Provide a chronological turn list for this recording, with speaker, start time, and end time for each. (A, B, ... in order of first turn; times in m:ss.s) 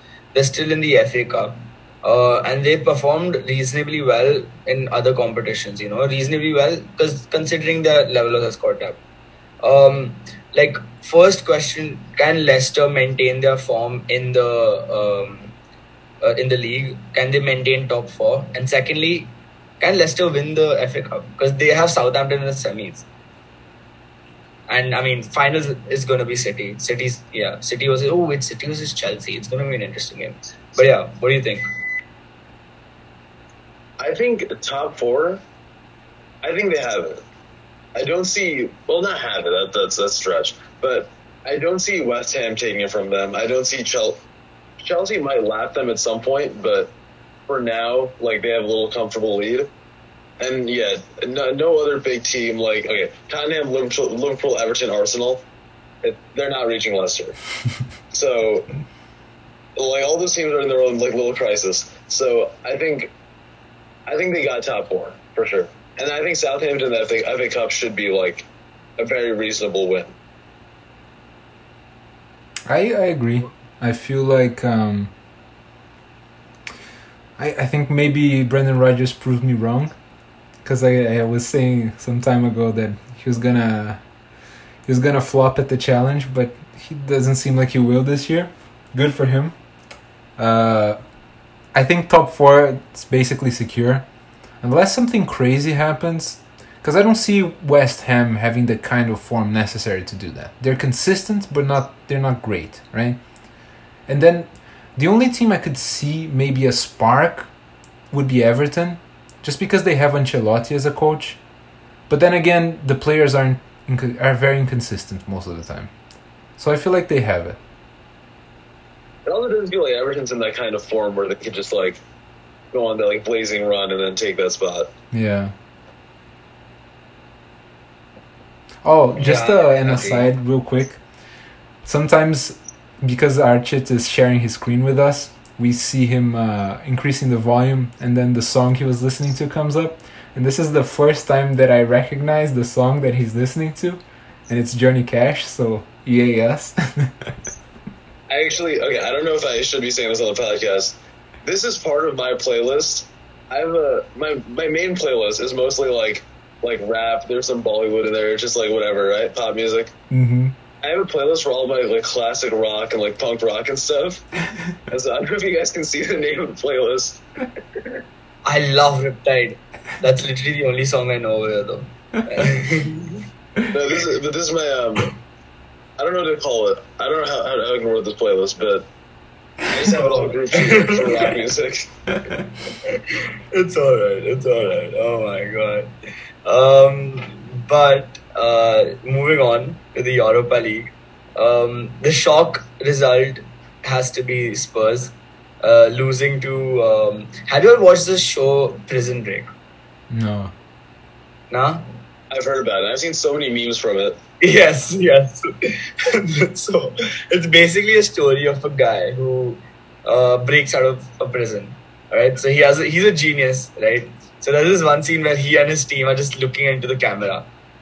0:00.3-0:09.0 A
0:09.6-0:15.5 A
0:16.2-0:23.0 A
0:24.7-0:31.6 A
0:34.0-0:35.4 B
0:36.4-0:37.2 B
0:38.0-0:44.2 B
0:44.8-0:46.9 B
0:47.5-0:49.7 B
0:50.4-0:55.4 B
0:56.0-0:57.4 B
0:58.1-0:58.7 B
0:59.8-1:03.1 B
1:04.1-1:08.5 B
1:09.0-1:10.1 B
1:12.6-1:15.1 C
1:17.4-1:19.9 C
1:20.6-1:24.0 C
1:24.8-1:29.6 C
1:30.4-1:31.1 C
1:31.7-1:34.0 C
1:34.6-1:43.2 C
1:44.0-1:47.5 C
1:48.1-1:51.4 C
1:52.1-1:55.9 C
1:56.6-1:57.6 C
1:59.2-2:02.0 B
2:02.7-2:04.9 B
2:05.1-2:05.5 C
2:08.8-2:11.0 C
2:09.2-2:10.3 A
2:11.8-2:27.3 C
2:28.3-2:39.9 B
2:40.1-2:40.6 C
2:40.8-2:44.2 B
2:44.9-2:47.2 B
2:48.4-2:53.2 A
2:53.7-2:55.1 B
2:56.0-2:58.8 B
2:59.7-3:01.9 B
2:59.9-3:01.4 A
3:02.9-3:05.9 A
3:06.4-3:19.5 A
3:20.1-3:20.5 C
3:21.5-3:21.9 A
3:22.3-3:24.2 B
3:24.4-3:37.4 A